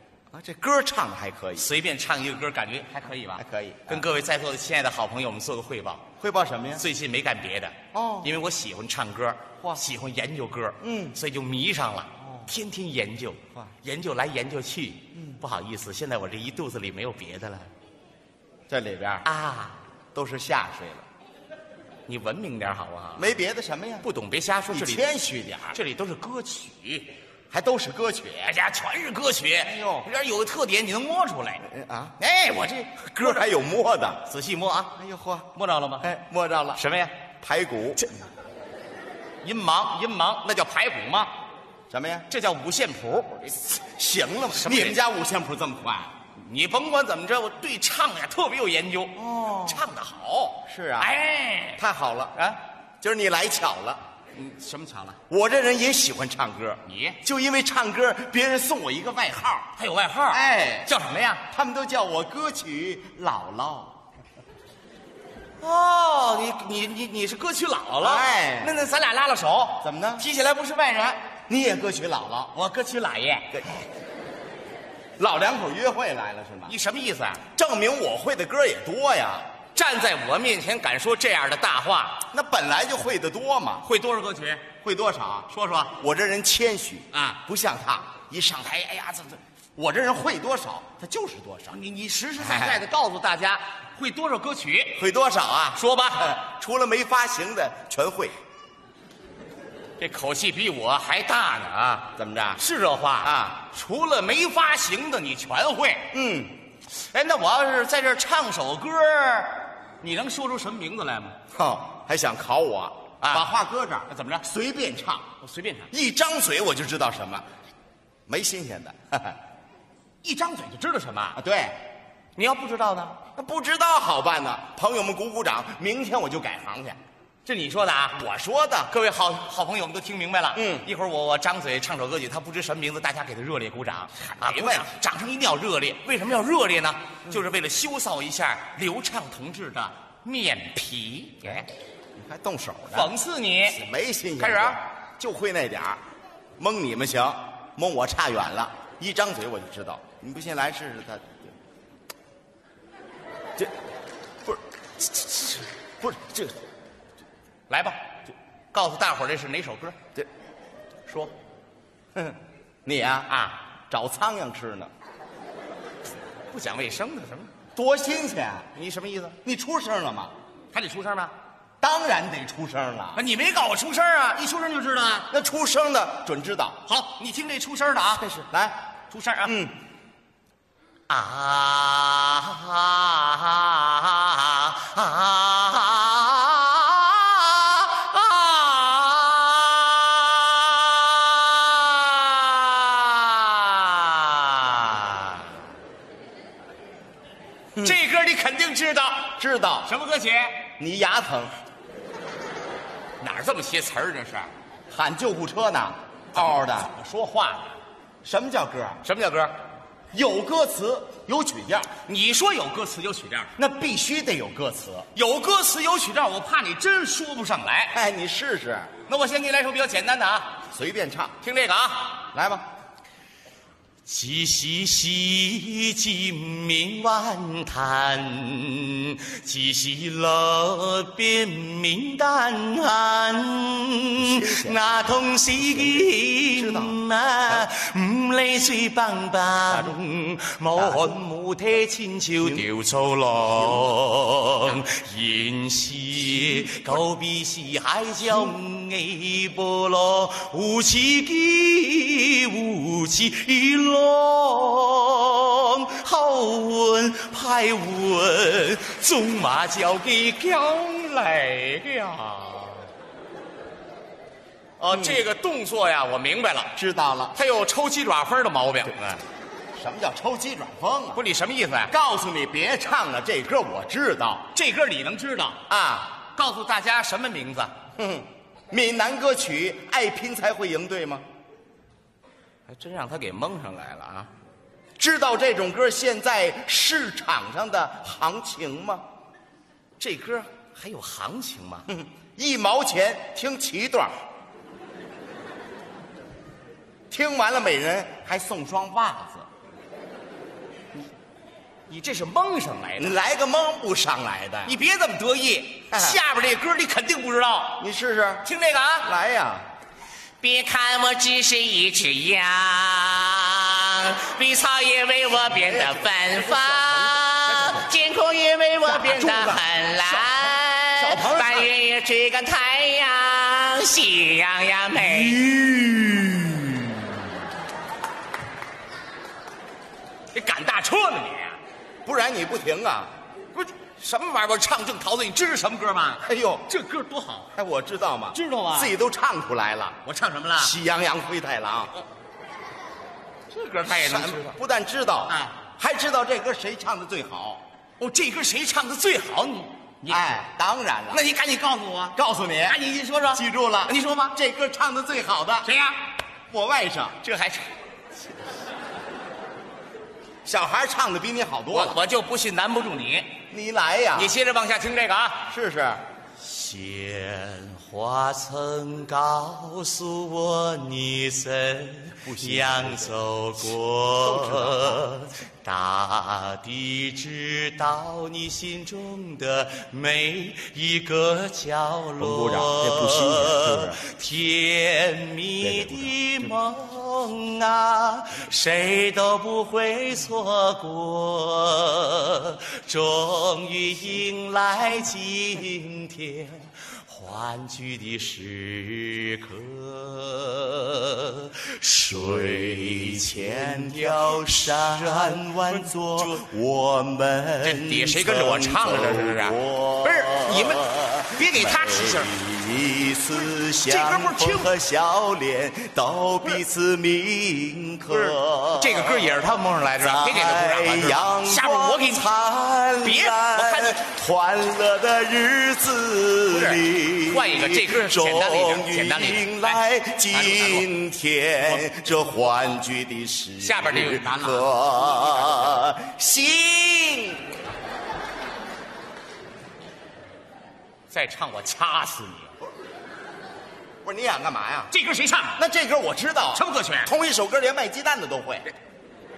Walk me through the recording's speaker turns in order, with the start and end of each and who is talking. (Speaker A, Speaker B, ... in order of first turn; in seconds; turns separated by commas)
Speaker A: 0.3-1.7, Speaker B: 1.6-6.0, Speaker A: 3.4-4.1, Speaker A: 6.2-6.8, Speaker B: 6.8-17.7, Speaker A: 7.9-8.3, Speaker A: 10.8-11.2, Speaker A: 18.7-19.3, Speaker B: 19.2-19.8, Speaker A: 20.1-21.1, Speaker B: 22.1-23.3, Speaker A: 23.2-24.1, Speaker B: 24.0-25.1, Speaker A: 24.7-25.8, Speaker B: 25.7-27.1, Speaker A: 27.5-28.6, Speaker B: 28.4-33.5, Speaker A: 29.6-30.1, Speaker A: 31.6-32.1, Speaker A: 33.2-34.2, Speaker B: 34.2-35.0, Speaker A: 35.0-35.5, Speaker B: 35.5-36.1, Speaker A: 36.0-36.8, Speaker B: 36.8-37.2, Speaker A: 37.4-38.0, Speaker B: 39.4-41.3, Speaker A: 41.9-42.3, Speaker B: 42.3-43.8, Speaker A: 44.0-46.1, Speaker B: 44.5-45.0, Speaker B: 46.4-51.8, Speaker A: 49.2-49.8, Speaker A: 50.7-51.1, Speaker A: 51.8-52.4, Speaker B: 52.3-52.6, Speaker A: 53.0-54.0, Speaker B: 54.3-55.2, Speaker A: 55.3-59.7, Speaker B: 56.8-57.2, Speaker B: 59.8-61.5, Speaker A: 60.3-60.9, Speaker A: 61.5-63.9, Speaker B: 65.6-71.2, Speaker A: 68.0-68.8, Speaker A: 69.8-70.3, Speaker A: 71.5-72.5, Speaker B: 72.5-73.7, Speaker A: 75.2-76.7, Speaker B: 76.7-77.5, Speaker A: 77.5-79.5, Speaker B: 79.8-82.3, Speaker A: 82.3-83.9, Speaker B: 83.8-84.7, Speaker A: 84.8-91.8, Speaker B: 85.5-86.0, Speaker B: 87.1-87.4, Speaker B: 88.7-89.4, Speaker B: 91.7-95.0, Speaker A: 92.4-92.8, Speaker A: 95.0-98.3, Speaker B: 95.8-96.4, Speaker B: 100.0-106.1, Speaker A: 102.2-102.6, Speaker A: 103.2-103.6, Speaker A: 106.1-106.6, Speaker B: 107.0-111.4, Speaker A: 111.5-115.3, Speaker B: 113.2-113.5, Speaker B: 114.1-114.5, Speaker B: 115.4-115.9, Speaker A: 115.9-117.5, Speaker A: 118.3-119.4, Speaker B: 120.2-121.4, Speaker A: 121.3-121.8, Speaker B: 122.4-123.2, Speaker A: 123.3-127.0, Speaker B: 127.5-128.3, Speaker A: 128.2-128.9, Speaker B: 128.9-141.7, Speaker A: 130.6-130.9, Speaker A: 134.3-134.9, Speaker A: 142.2-143.1, Speaker B: 142.9-143.8, Speaker A: 143.7-146.0, Speaker B: 144.4-144.8, Speaker A: 146.6-151.3, Speaker A: 156.0-156.6, Speaker B: 157.7-158.0, Speaker B: 158.7-160.0, Speaker B: 161.1-161.3, Speaker A: 162.2-164.9, Speaker B: 163.3-163.6, Speaker B: 166.5-167.5, Speaker A: 167.8-168.7, Speaker B: 168.7-169.4, Speaker A: 169.4-170.3, Speaker B: 170.7-171.3, Speaker A: 171.8-173.2, Speaker B: 173.1-175.3, Speaker A: 175.3-176.8, Speaker B: 176.8-178.4, Speaker A: 178.1-178.8, Speaker B: 179.1-179.6, Speaker A: 179.4-179.7, Speaker B: 181.1-195.5, Speaker B: 197.8-200.7, Speaker A: 199.4-199.9, Speaker A: 200.8-201.5, Speaker B: 203.2-204.5, Speaker A: 204.9-206.9, Speaker B: 206.3-207.8, Speaker A: 208.2-209.0, Speaker B: 209.0-209.5, Speaker A: 210.1-211.9, Speaker B: 212.0-213.5, Speaker A: 213.6-215.1, Speaker B: 215.1-218.0, Speaker A: 217.9-218.9, Speaker B: 219.1-220.5, Speaker A: 220.7-221.3, Speaker B: 221.4-222.2, Speaker A: 222.3-222.6, Speaker B: 224.1-262.9, Speaker A: 234.2-237.7, Speaker A: 239.7-239.9, Speaker A: 240.8-241.2, Speaker A: 242.4-242.7, Speaker A: 243.6-244.0, Speaker A: 246.4-246.8, Speaker B: 264.8-266.8, Speaker A: 264.9-265.2, Speaker A: 266.8-267.4, Speaker B: 267.3-269.2, Speaker A: 269.8-271.2, Speaker B: 271.1-271.9, Speaker A: 271.9-274.5, Speaker B: 274.5-277.7, Speaker A: 275.7-276.1, Speaker A: 278.0-281.2, Speaker B: 282.7-284.3, Speaker A: 285.0-289.0, Speaker B: 290.0-291.9, Speaker A: 291.9-294.1, Speaker A: 297.1-299.5, Speaker B: 301.9-303.2, Speaker A: 303.0-304.8, Speaker B: 304.6-307.9, Speaker A: 305.9-306.2, Speaker A: 307.8-308.5, Speaker B: 308.4-309.1, Speaker A: 309.0-309.7, Speaker B: 310.4-325.4, Speaker A: 315.4-317.9, Speaker A: 318.8-321.7, Speaker A: 325.0-327.0, Speaker B: 330.3-331.6, Speaker A: 332.1-333.1, Speaker B: 333.6-337.5, Speaker A: 336.2-336.7, Speaker A: 337.6-340.0, Speaker B: 338.3-338.9, Speaker B: 340.0-340.8, Speaker A: 340.6-341.9, Speaker B: 343.5-344.6, Speaker A: 343.9-347.6, Speaker B: 345.3-345.6, Speaker B: 348.0-350.4, Speaker A: 350.1-351.3, Speaker B: 351.1-354.4, Speaker A: 352.1-355.7, Speaker B: 355.6-356.1, Speaker A: 356.5-357.2, Speaker B: 357.2-357.7, Speaker A: 360.4-362.0, Speaker B: 361.7-363.4, Speaker A: 363.5-364.4, Speaker B: 364.1-365.5, Speaker A: 365.5-366.0, Speaker B: 366.4-406.5, Speaker A: 372.2-373.2, Speaker A: 374.1-375.1, Speaker A: 382.2-384.0, Speaker A: 385.6-386.5, Speaker A: 402.2-419.4, Speaker B: 407.6-412.4, Speaker B: 413.4-414.7, Speaker B: 418.1-422.3, Speaker A: 420.0-437.5, Speaker B: 423.0-424.0, Speaker B: 426.5-430.9, Speaker B: 431.6-432.1, Speaker B: 433.6-435.8, Speaker B: 441.1-442.5, Speaker A: 444.0-444.9, Speaker B: 444.9-445.6, Speaker A: 445.6-448.7, Speaker B: 446.5-447.1